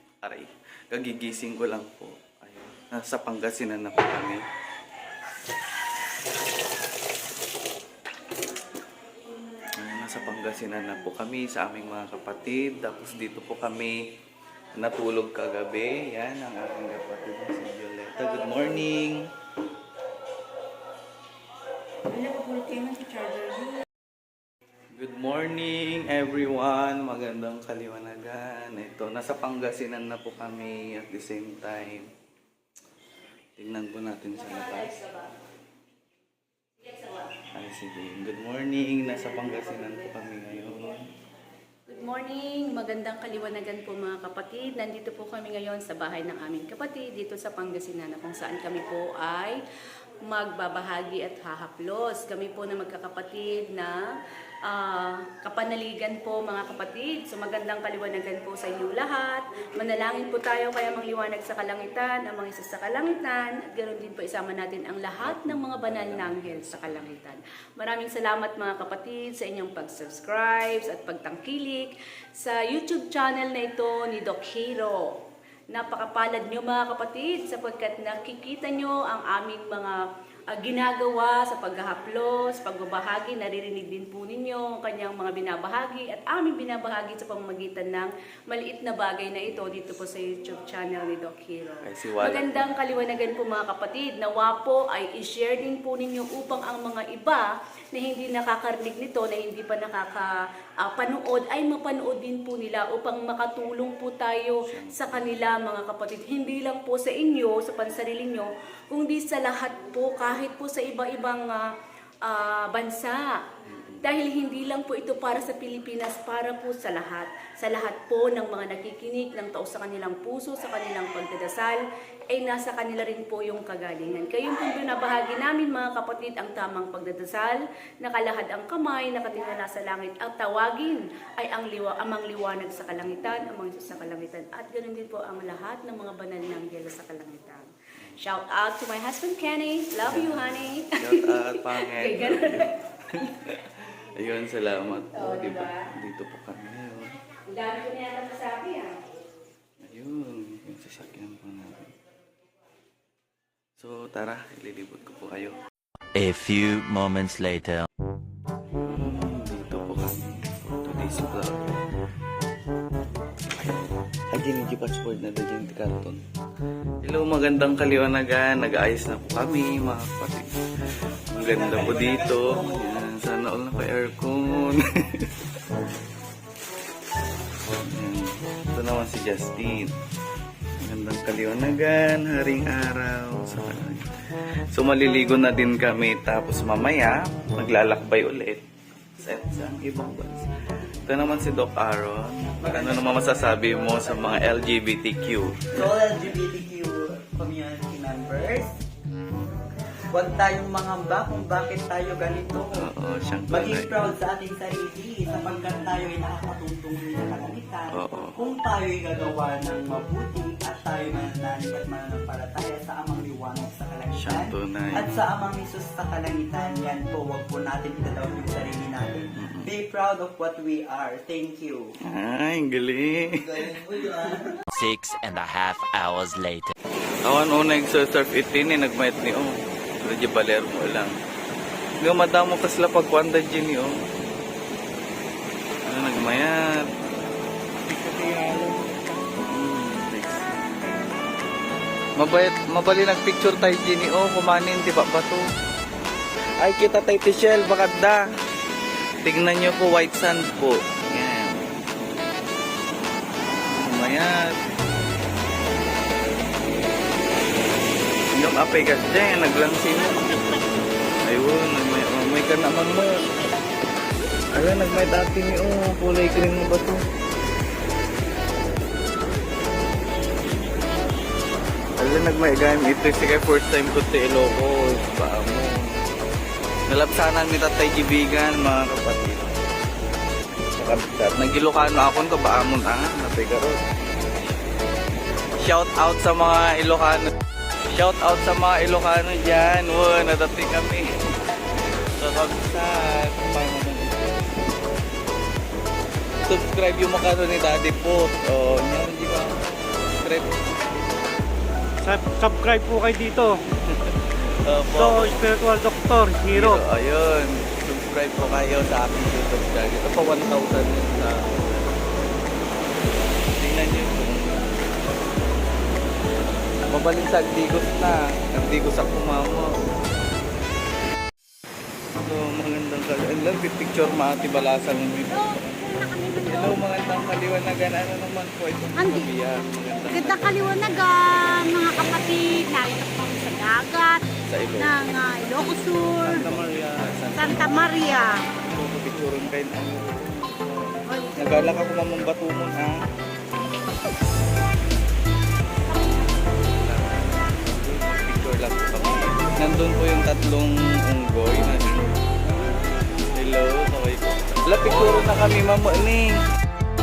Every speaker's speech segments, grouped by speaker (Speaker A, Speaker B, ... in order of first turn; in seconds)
Speaker A: 0.2-4.4, 9.8-14.0, 14.8-19.2, 24.9-32.1, 33.6-35.0, 37.5-41.1, 65.2-67.1, 91.8-92.7, 104.7-105.4, 113.7-114.0, 140.1-147.2, 149.8-151.9, 153.8-155.6, 158.8-161.8, 163.4-166.2, 167.0-170.5, 171.3-175.3, 177.8-179.9, 180.8-184.2, 184.7-188.6, 189.2-190.5, 191.1-195.8, 202.7-204.2, 207.9-208.4, 214.2-215.1, 219.4-219.7, 222.1-223.7, 227.2-231.2, 232.0-233.9, 235.8-236.8, 237.9-240.7, 242.2-245.4, 246.6-248.2, 249.2-251.7, 253.7-254.4, 258.3-260.4, 261.2-263.1, 264.5-267.0, 272.0-276.0, 276.9-279.6, 280.7-283.8, 285.6-287.3, 287.9-291.1, 292.2-294.6, 296.5-300.5, 303.9-305.5, 306.5-312.0, 313.6-314.7, 316.9-319.7, 322.2-325.4, 326.4-330.8, 334.4-335.0, 336.2-337.9, 338.6-343.0, 346.5-352.2, 353.3-356.3
Speaker B: 22.1-23.7, 325.3-326.8, 329.0-329.3, 330.1-336.5, 337.3-338.4, 341.1-341.6
Speaker C: 34.8-35.2, 41.9-49.6, 50.3-54.0, 54.7-75.2, 75.7-80.0, 80.5-111.7, 112.2-113.2, 114.0-121.8, 122.3-142.7, 145.1-145.9, 147.5-149.0
Speaker D: 156.2-157.9, 224.7-226.8
Speaker E: 171.4-173.1, 192.6-194.6, 195.7-198.8, 200.1-202.9, 203.5-221.9, 223.3-224.6
Speaker F: 302.0-303.6, 304.9-306.8